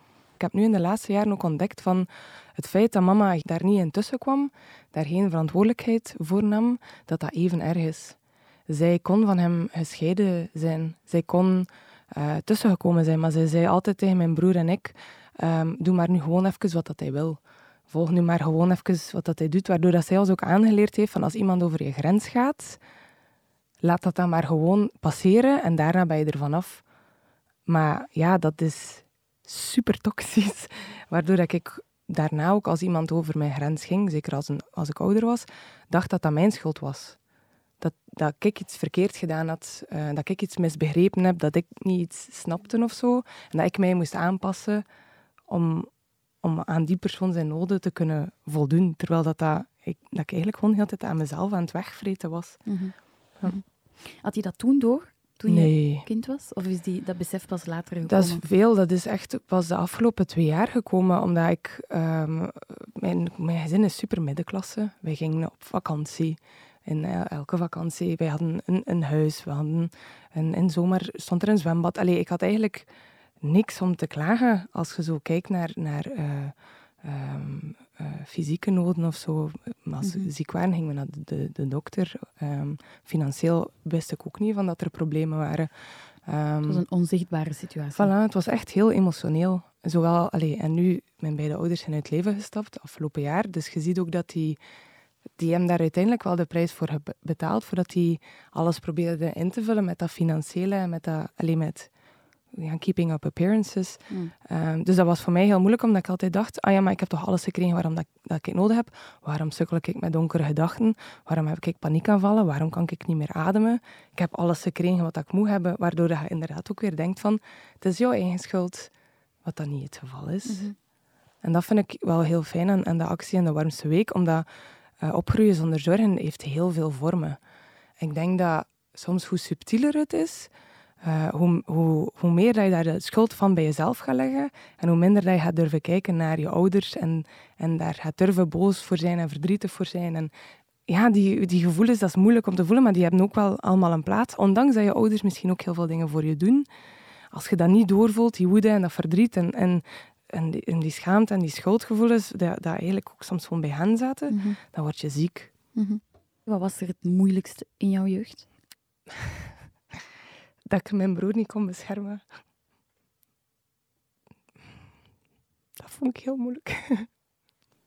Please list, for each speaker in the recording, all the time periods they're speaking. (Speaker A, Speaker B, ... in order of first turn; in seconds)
Speaker A: 0.4-8.2, 8.7-22.8, 23.8-26.8, 27.7-37.2, 37.8-44.9, 45.5-52.7, 55.5-56.1, 58.0-72.9, 73.4-85.7, 86.2-86.8, 88.0-94.6, 95.4-101.9, 102.5-118.9, 119.4-120.7, 121.4-124.5, 125.0-127.4, 128.0-130.5, 131.0-140.3, 140.9-146.7, 147.3-155.5, 160.7-162.2, 165.8-167.1
Speaker B: 52.7-58.4, 80.0-80.3, 86.7-88.1, 120.5-120.8, 154.3-154.6, 155.8-158.5